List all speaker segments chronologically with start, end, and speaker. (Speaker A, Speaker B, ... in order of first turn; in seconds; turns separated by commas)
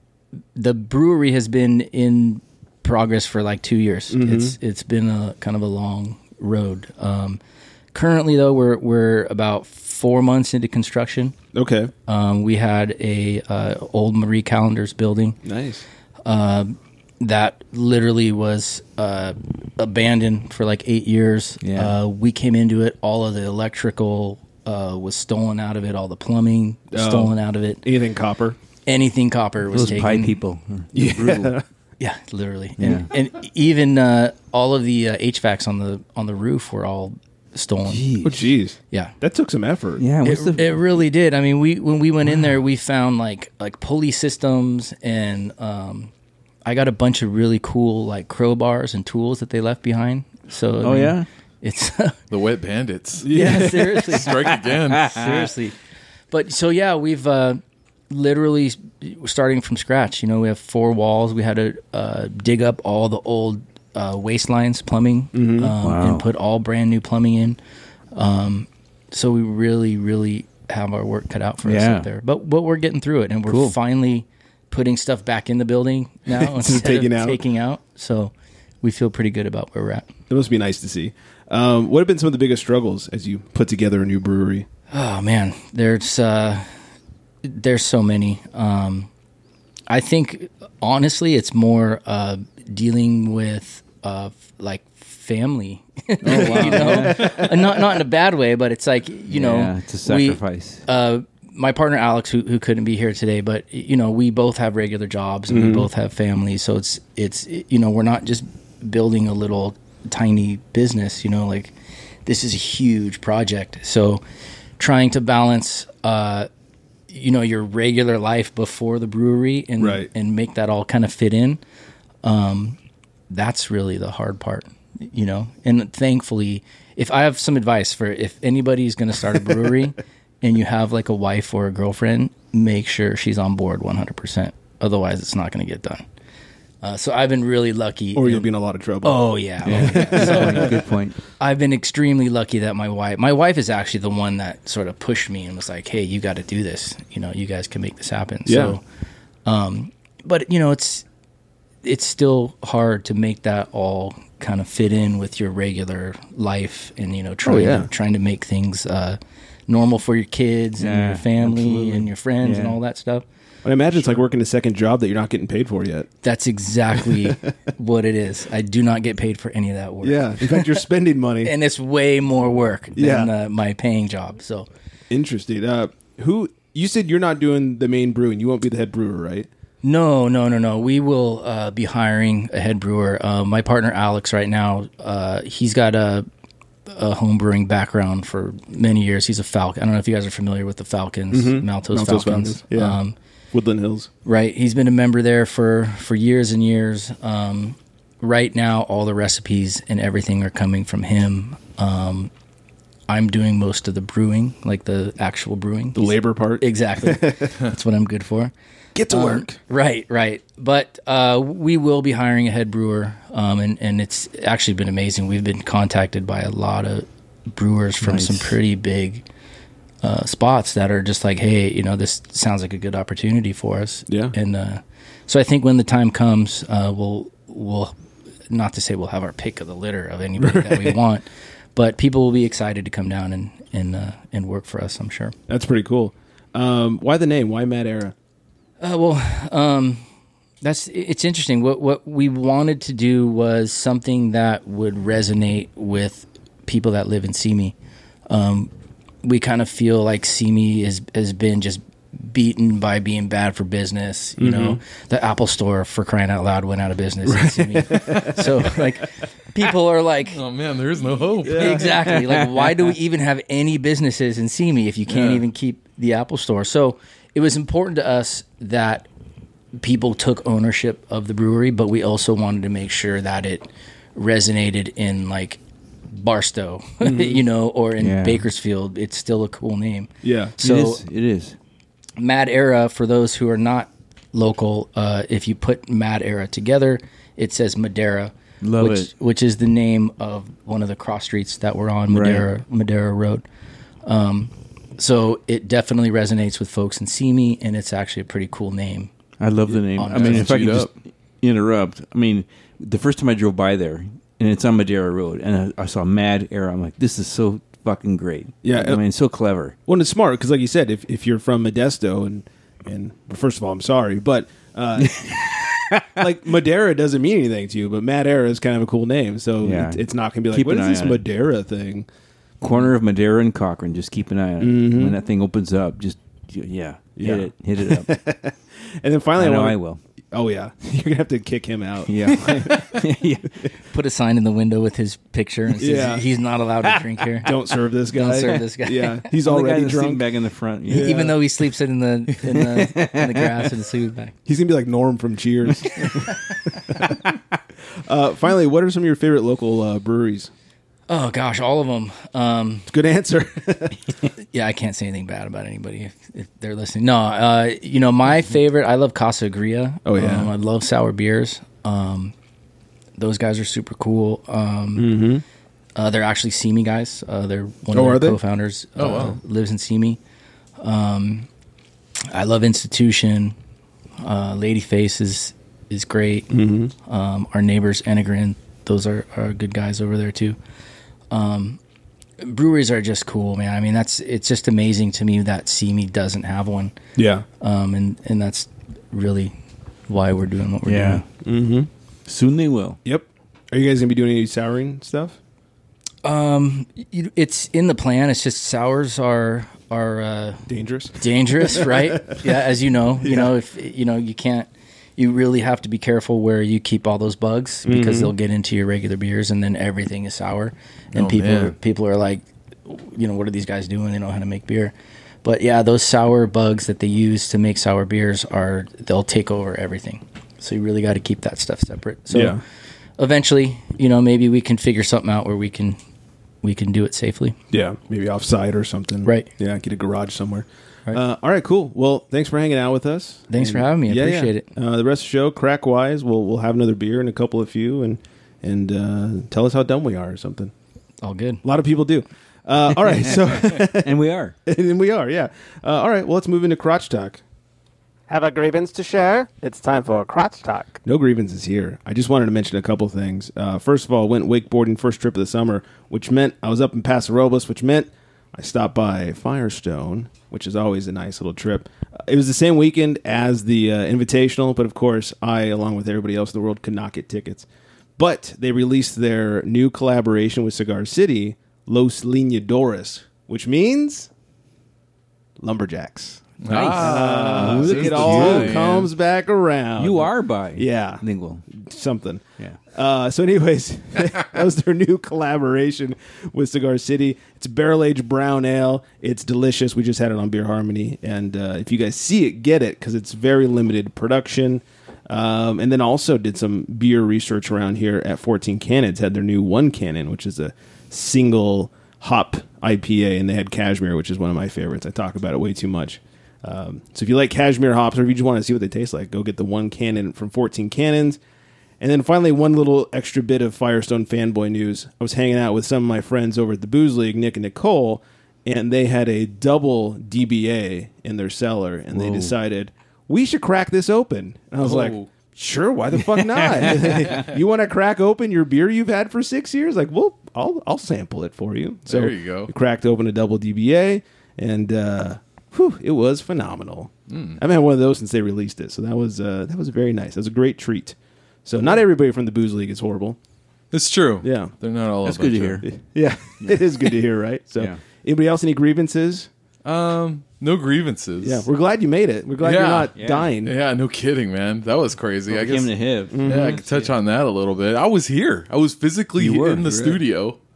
Speaker A: 0.6-7.4, Speaker B: 4.1-4.5, Speaker A: 7.9-11.3, Speaker B: 11.5-11.9, Speaker A: 12.1-15.4, Speaker B: 15.4-15.8, Speaker A: 16.2-27.8, Speaker C: 21.6-21.9, Speaker B: 26.9-28.6, Speaker A: 28.9-30.4, Speaker C: 29.7-31.6, Speaker B: 30.9-31.6, Speaker A: 32.0-38.0, Speaker C: 32.8-33.1, Speaker C: 37.9-38.5, Speaker B: 38.2-40.0, Speaker C: 40.0-40.8, Speaker A: 40.2-46.1, Speaker A: 46.6-52.2, Speaker C: 50.8-51.2, Speaker D: 52.3-53.3, Speaker B: 53.2-54.2, Speaker A: 53.3-54.3, Speaker D: 54.1-55.2, Speaker A: 55.0-55.8, Speaker A: 56.3-67.6, Speaker B: 65.3-65.7, Speaker C: 65.8-66.2, Speaker A: 68.1-80.1, Speaker C: 71.6-72.1, Speaker C: 73.5-73.7, Speaker B: 76.3-77.4, Speaker B: 80.3-84.7, Speaker A: 84.9-86.7, Speaker A: 87.4-89.1, Speaker A: 89.9-111.7, Speaker C: 96.2-97.4, Speaker B: 96.4-97.3, Speaker D: 97.2-97.6, Speaker C: 99.3-100.8, Speaker B: 105.5-105.9, Speaker A: 112.2-114.2, Speaker A: 114.8-116.5, Speaker A: 117.1-121.6, Speaker B: 119.8-120.1, Speaker A: 122.2-122.8, Speaker A: 123.3-136.0, Speaker A: 136.8-138.5, Speaker B: 138.1-140.8, Speaker A: 139.0-140.7, Speaker C: 139.6-141.2, Speaker A: 141.4-148.8, Speaker B: 148.4-148.8, Speaker A: 149.4-151.0, Speaker A: 151.8-163.2, Speaker B: 157.4-157.9, Speaker C: 160.8-162.8, Speaker B: 163.6-166.1, Speaker A: 166.2-170.8, Speaker B: 167.1-167.5, Speaker B: 170.0-171.5, Speaker A: 171.4-174.7, Speaker B: 172.9-173.3, Speaker B: 175.1-179.5, Speaker A: 179.8-186.2, Speaker A: 186.8-193.1, Speaker B: 191.3-193.0, Speaker B: 193.5-194.1, Speaker A: 194.2-202.3, Speaker A: 203.1-208.5, Speaker B: 205.9-207.5, Speaker B: 208.9-209.6, Speaker A: 209.1-219.2, Speaker C: 218.0-218.5, Speaker A: 220.0-227.9, Speaker B: 224.1-224.3, Speaker A: 228.5-235.3, Speaker B: 230.4-231.0, Speaker B: 235.5-238.1, Speaker A: 238.8-240.0, Speaker A: 240.6-247.7, Speaker A: 248.3-248.7, Speaker A: 249.2-260.4, Speaker B: 254.4-254.8, Speaker B: 257.2-258.8, Speaker D: 260.3-261.9, Speaker B: 261.4-261.9, Speaker A: 261.5-269.1, Speaker C: 262.2-262.4, Speaker D: 265.1-265.4, Speaker A: 269.8-275.6, Speaker A: 276.1-281.0, Speaker B: 277.0-277.4, Speaker C: 278.0-278.4, Speaker B: 280.2-280.5, Speaker C: 280.6-281.6, Speaker A: 282.2-293.4, Speaker C: 288.6-289.1, Speaker C: 292.1-292.4, Speaker A: 294.0-299.1, Speaker C: 299.4-309.7, Speaker A: 299.9-300.7, Speaker D: 300.1-300.9, Speaker B: 308.6-309.0, Speaker B: 309.9-315.5, Speaker C: 315.0-316.2, Speaker B: 316.1-322.1, Speaker C: 319.6-321.2, Speaker C: 322.6-328.1, Speaker B: 324.6-325.2, Speaker B: 327.2-329.8, Speaker C: 329.4-330.0, Speaker B: 330.3-332.9, Speaker C: 332.1-333.5, Speaker A: 333.9-337.5, Speaker B: 335.8-336.2, Speaker C: 337.0-337.2, Speaker B: 337.4-340.3, Speaker A: 338.1-339.3, Speaker C: 339.4-341.3, Speaker B: 340.9-341.4, Speaker A: 340.9-344.3, Speaker C: 342.4-343.7, Speaker B: 344.4-347.2, Speaker B: 347.9-350.5, Speaker A: 351.1-352.9, Speaker B: 352.9-354.2, Speaker A: 354.5-362.3, Speaker B: 360.0-360.5, Speaker A: 363.2-365.2, Speaker B: 364.9-365.4, Speaker A: 365.9-370.2, Speaker B: 367.9-368.4, Speaker D: 369.0-369.4, Speaker A: 370.8-371.5, Speaker A: 372.3-373.6, Speaker A: 374.2-376.5, Speaker B: 376.5-376.9, Speaker A: 377.0-380.6, Speaker A: 381.3-381.8, Speaker A: 382.4-386.9, Speaker B: 387.1-387.4, Speaker A: 387.6-389.5, Speaker A: 390.1-391.2, Speaker C: 390.9-391.2, Speaker B: 391.4-391.9, Speaker C: 392.3-393.0, Speaker B: 393.0-395.4, Speaker A: 396.2-400.6, Speaker B: 400.7-402.4, Speaker A: 401.2-414.9, Speaker B: 403.2-403.5, Speaker B: 407.8-408.3, Speaker D: 411.1-411.7, Speaker A: 415.4-422.6, Speaker B: 422.3-422.6, Speaker A: 423.2-426.0, Speaker A: 426.6-427.6, Speaker B: 427.7-440.7, Speaker A: 433.5-434.6, Speaker A: 441.2-441.6, Speaker B: 441.6-444.1, Speaker C: 443.7-444.5, Speaker B: 444.6-447.4, Speaker E: 448.3-451.0, Speaker B: 451.0-474.3, Speaker B: 475.6-511.4, Speaker D: 476.6-479.1, Speaker C: 476.6-478.8, Speaker C: 480.0-481.6, Speaker B: 512.0-543.4, Speaker C: 522.1-522.5, Speaker D: 524.8-525.3, Speaker C: 526.4-527.4, Speaker D: 532.1-532.7, Speaker D: 537.3-537.6, Speaker D: 543.9-545.8, Speaker B: 544.4-544.7, Speaker C: 545.2-545.9, Speaker B: 545.8-549.5, Speaker C: 546.6-546.9, Speaker D: 549.8-551.6, Speaker B: 551.4-553.7, Speaker D: 552.6-553.1, Speaker C: 553.1-553.5, Speaker D: 553.6-560.6, Speaker C: 555.5-557.1, Speaker B: 556.3-556.8, Speaker C: 559.4-560.1, Speaker B: 559.8-560.2